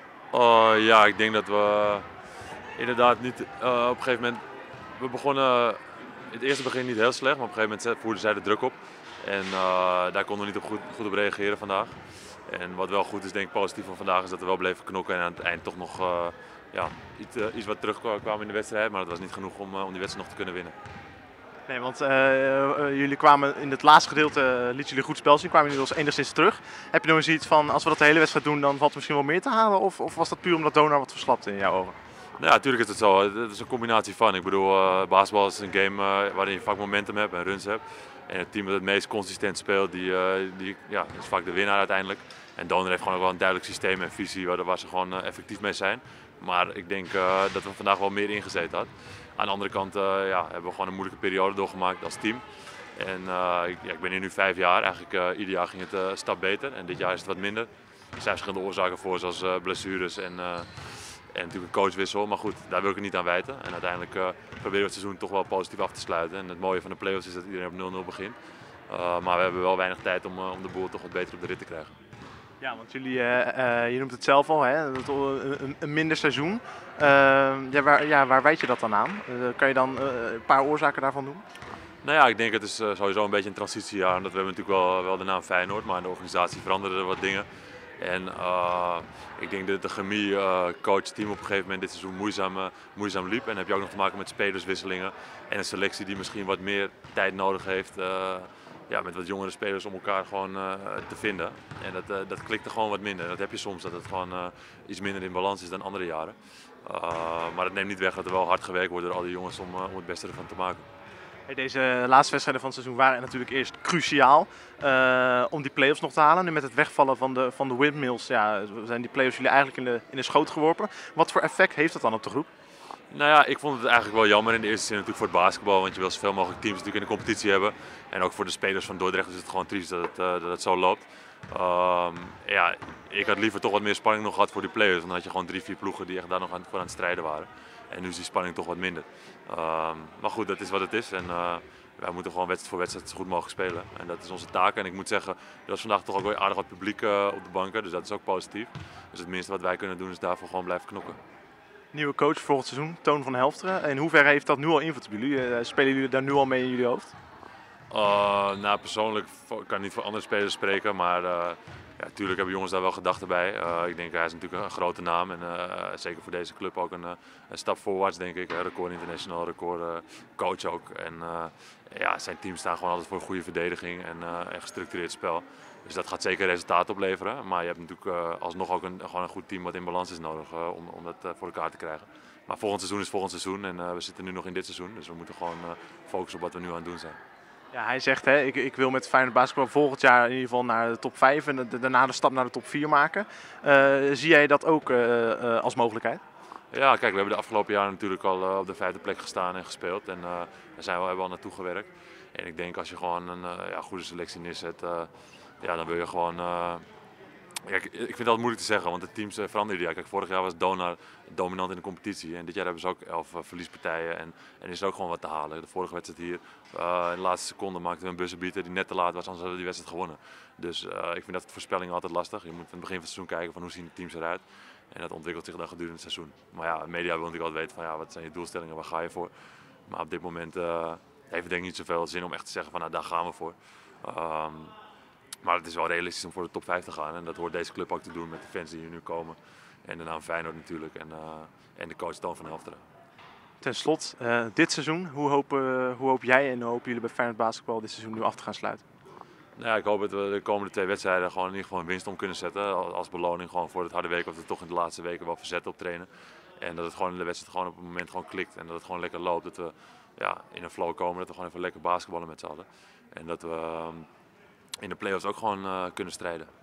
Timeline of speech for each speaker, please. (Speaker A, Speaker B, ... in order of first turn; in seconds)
Speaker A: 0.3-2.0, 2.8-4.4, 5.0-20.7, 32.4-52.4, 52.9-68.3, 68.9-71.9, 82.0-87.5, 88.0-110.8, 123.1-151.2, 157.9-187.2, 196.7-205.1, 205.6-206.8, 207.6-229.3, 229.9-234.7, 235.4-242.8, 249.6-256.1, 256.6-264.1, 264.8-266.5
Speaker B: 21.7-31.9, 72.6-81.4, 111.5-122.5, 151.9-157.1, 187.7-196.2, 243.6-248.8